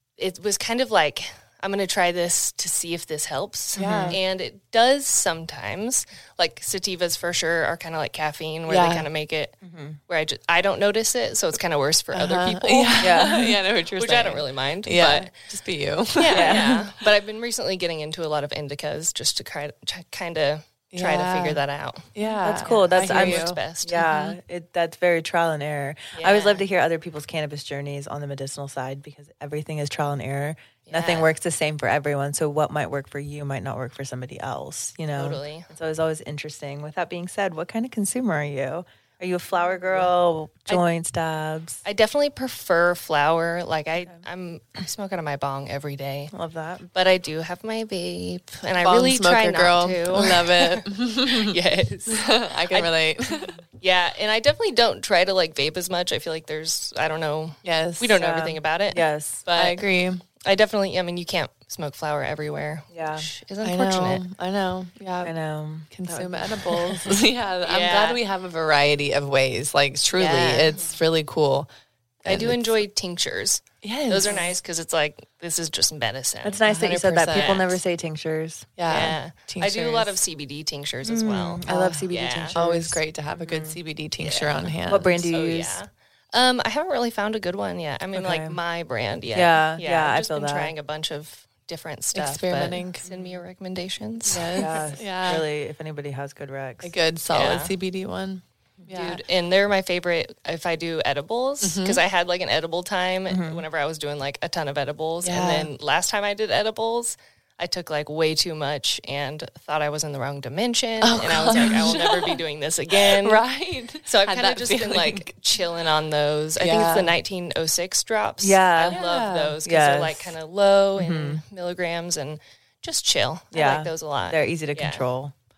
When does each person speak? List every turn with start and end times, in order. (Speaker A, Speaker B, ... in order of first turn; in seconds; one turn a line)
Speaker A: 0.2-9.6
Speaker B: 3.8-4.2
Speaker C: 3.8-4.2
Speaker B: 8.7-9.1
Speaker C: 9.6-10.0
Speaker A: 10.1-13.3
Speaker B: 12.1-16.9
Speaker C: 13.0-13.6
Speaker A: 14.0-15.3
Speaker A: 16.2-24.0
Speaker C: 16.3-16.8
Speaker B: 20.9-21.6
Speaker B: 22.1-24.4
Speaker C: 22.4-41.8
Speaker A: 26.1-26.6
Speaker A: 30.9-31.3
Speaker A: 35.1-35.7
Speaker A: 41.9-46.3
Speaker C: 46.3-46.9
Speaker A: 46.9-52.9
Speaker B: 48.8-53.6
Speaker A: 53.8-59.8
Speaker B: 57.6-58.1
Speaker C: 58.2-59.4
Speaker B: 59.5-60.2
Speaker A: 60.4-64.2
Speaker C: 62.9-63.3
Speaker B: 63.6-65.3
Speaker C: 65.2-67.0
Speaker B: 65.9-71.7
Speaker A: 67.6-68.2
Speaker A: 70.2-70.8
Speaker B: 72.2-72.8
Speaker A: 72.2-76.6
Speaker B: 73.8-74.5
Speaker C: 76.4-78.7
Speaker B: 76.6-77.6
Speaker A: 77.3-77.8
Speaker B: 78.8-80.2
Speaker A: 78.9-82.5
Speaker C: 81.0-83.8
Speaker B: 81.7-85.3
Speaker A: 84.2-84.7
Speaker C: 84.9-85.8
Speaker A: 85.3-94.8
Speaker C: 88.2-88.6
Speaker C: 89.3-90.7
Speaker B: 92.1-93.0
Speaker C: 93.0-93.4
Speaker B: 94.3-95.5
Speaker C: 94.6-96.9
Speaker B: 96.8-99.2
Speaker A: 97.3-97.7
Speaker A: 98.9-113.4
Speaker B: 101.6-102.0
Speaker C: 103.3-103.6
Speaker B: 105.2-105.7
Speaker B: 111.0-112.4
Speaker B: 112.9-115.3
Speaker A: 114.0-125.0
Speaker B: 116.6-117.1
Speaker C: 118.4-119.0
Speaker B: 118.9-119.6
Speaker C: 119.7-120.3
Speaker C: 121.0-121.4
Speaker C: 123.5-125.3